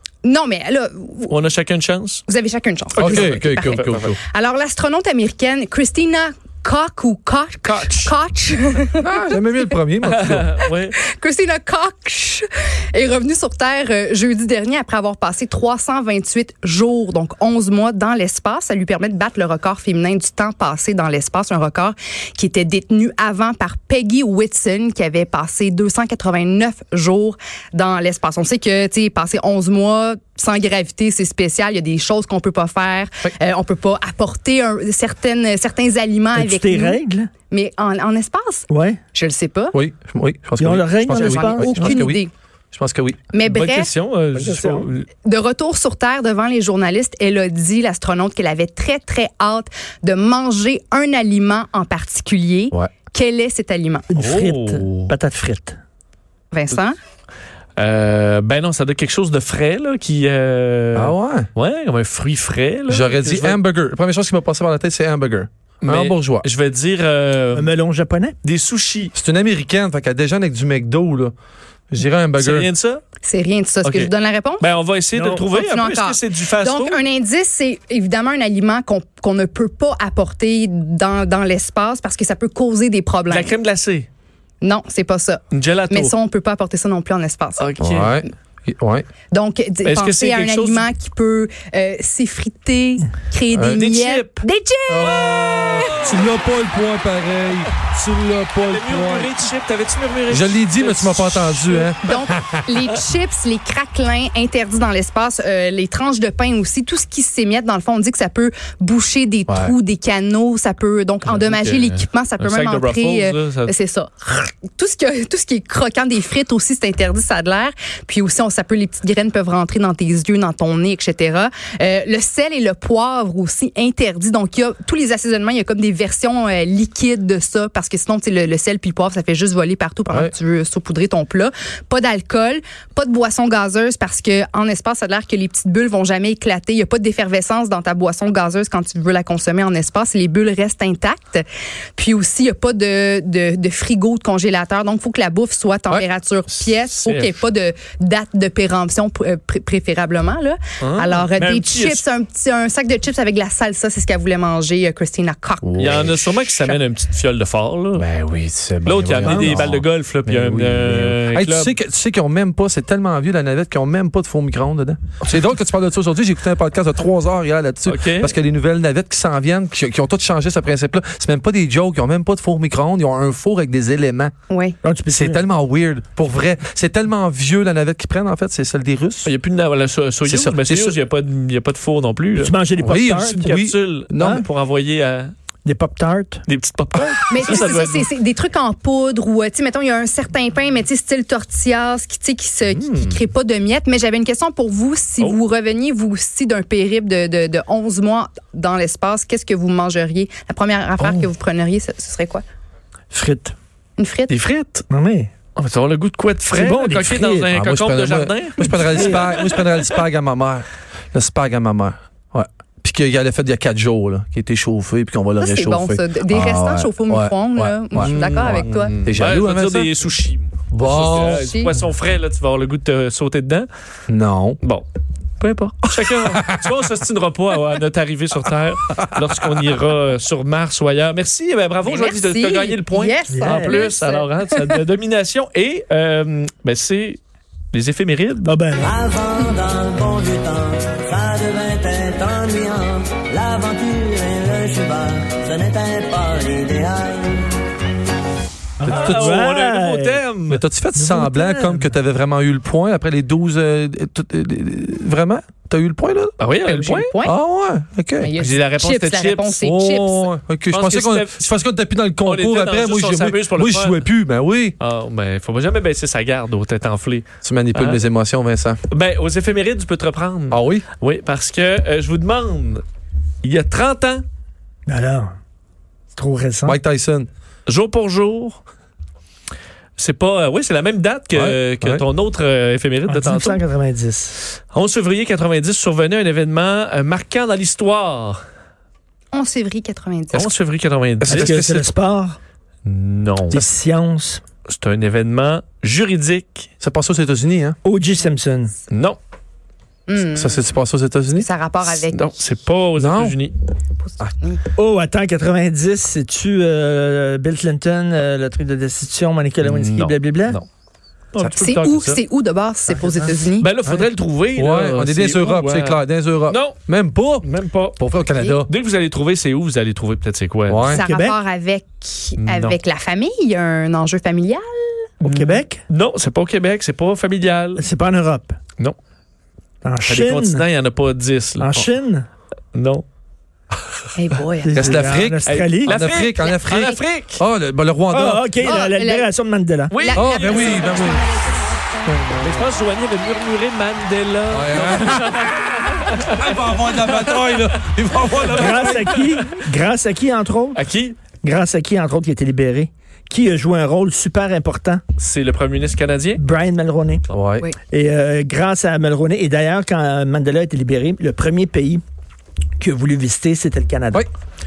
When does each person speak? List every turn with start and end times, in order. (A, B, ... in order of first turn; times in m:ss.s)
0:00.2-0:01.3 A
0:01.3-0:02.2 B
0:02.3-0:09.7 A
0:02.9-0:04.1 B
0:03.0-0:04.2 C
0:07.6-0:08.1 B
0:09.1-0:10.5 C
0:10.0-0:11.0 B
0:11.0-0:39.8 A
0:36.4-0:37.3 D
0:38.7-0:39.0 D
0:39.7-0:43.2 C
0:40.6-0:41.8 D
0:41.1-0:42.3 A
0:43.3-0:43.9 A
0:43.4-0:45.1 B
0:44.3-0:44.9 D
0:45.2-0:54.1 A
0:54.1-0:55.8 D
0:54.2-0:55.1 B
0:56.5-0:57.0 A
0:57.8-1:03.6 B
1:01.0-1:01.5 C
1:02.9-1:06.5 C
1:05.8-1:07.7 B
1:07.5-1:08.4 D
1:08.4-1:09.1 B
1:09.2-1:11.3 C
1:11.9-1:12.7 C
1:12.4-1:13.0 B
1:13.2-1:14.7 A
1:13.8-1:17.0 B
1:15.1-1:15.4 D
1:15.5-1:23.6 A
1:23.3-1:24.1 B
1:24.6-1:27.7 A
1:25.5-1:26.2 B
1:27.6-1:28.2 B
1:27.8-1:29.1 C
1:29.3-1:36.1 A
1:29.8-1:30.9 B
1:33.5-1:33.8 C
1:33.8-1:34.4 B
1:34.9-1:39.3 C
1:35.0-1:36.2 B
1:38.7-1:41.9 B
1:40.3-1:42.7 C
1:42.0-2:21.4 A
1:49.5-1:49.8 C
1:51.2-1:53.7 B
2:22.0-2:36.8 A
2:26.8-2:27.4 B
2:30.8-2:32.0 B
2:35.6-2:36.2 C
2:35.8-2:38.1 B
2:38.0-2:54.3 C
2:38.8-2:41.7 B
2:39.2-2:39.6 D
2:47.9-2:48.3 B
2:54.5-2:54.8 A
2:54.8-2:55.4 D
2:55.1-2:59.3 C
2:59.2-3:05.3 B
3:00.2-3:01.0 C
3:02.4-3:03.4 D
3:02.8-3:04.4 C
3:04.2-3:04.4 D
3:05.6-3:06.4 D
3:06.5-3:08.1 B
3:07.3-3:22.4 A
3:23.1-3:23.6 D
3:24.0-3:24.3 A
3:24.3-3:24.8 B
3:24.9-3:25.3 D
3:25.6-3:29.9 B
3:26.5-3:27.5 D
3:27.4-3:39.9 C
3:28.7-3:29.2 D
3:35.4-3:39.0 A
3:38.0-3:43.7 B
3:40.7-3:41.5 C
3:41.3-3:41.8 A
3:44.1-3:44.6 C
3:45.4-3:57.2 B
3:46.3-3:46.7 C
3:49.0-3:49.3 C
3:51.8-3:54.8 A
3:53.3-3:53.8 D
3:57.7-3:58.6 B
3:58.4-3:58.9 D
3:58.8-4:07.5 E
4:08.8-4:10.2 D
4:08.9-4:09.4 C
4:08.9-4:10.6 B
4:10.5-4:16.4 C
4:11.0-4:11.9 D
4:16.4-4:17.1 B
4:16.7-4:17.4 A
4:17.2-4:18.3 C
4:18.2-4:20.3 A
4:18.4-4:19.6 B
4:19.6-4:24.8 C
4:20.7-4:21.5 B
4:22.2-4:24.1 B
4:24.8-4:28.0 B
4:27.4-4:28.8 C
4:28.9-4:32.8 B
4:30.5-4:30.8 C
4:33.4-4:34.2 B
4:34.9-4:35.3 D
4:36.2-4:36.8 D
4:36.6-4:37.3 C
4:37.7-4:38.6 B
4:40.0-4:43.6 B
4:41.3-4:42.0 C
4:43.1-4:44.4 D
4:44.7-4:48.4 B
4:49.3-4:50.5 A
4:50.3-4:51.8 B
4:51.2-4:52.4 D
4:51.3-4:51.7 C
4:52.8-4:53.7 B
4:53.5-4:54.4 D
4:54.7-4:56.7 B
4:56.8-4:57.8 C
4:57.8-4:58.7 D
4:58.9-4:59.2 B
5:00.1-5:00.6 A
5:00.2-5:01.5 C
5:01.4-5:02.2 A
5:02.1-5:03.6 B
5:03.0-5:03.4 C
5:04.0-5:04.6 A
5:04.8-5:10.6 D
5:09.6-5:10.7 B
5:11.3-5:12.2 B
5:11.6-5:13.7 A
5:13.6-5:16.8 B
5:13.9-5:18.7 C
5:17.4-5:18.0 B
5:18.7-5:20.9 B
5:20.7-5:21.0 C
5:20.9-5:25.1 A
5:21.0-5:21.4 D
5:22.4-5:22.8 B
5:25.2-5:25.8 D
5:25.2-5:27.8 B
5:27.8-5:28.6 D
5:29.8-5:30.7 D
5:30.0-5:31.8 B
5:31.6-5:32.3 D
5:32.8-5:33.0 B
5:34.2-5:35.0 A
5:34.6-5:35.9 D
5:34.7-5:38.5 C
5:35.4-5:37.4 B
5:36.4-5:37.0 A
5:38.1-5:39.9 D
5:38.6-5:39.3 A
5:39.9-5:41.2 B
5:40.0-5:41.3 A
5:40.1-5:41.4 C
5:42.0-5:42.7 C
5:42.4-5:49.6 B
5:44.5-5:49.2 C
5:48.6-5:50.8 D
5:50.7-5:51.2 B
5:51.4-5:55.0 D
5:55.2-5:56.4 B
5:56.4-5:57.2 D
5:57.3-5:57.7 C
5:57.9-6:02.0 D
6:02.8-6:04.2 D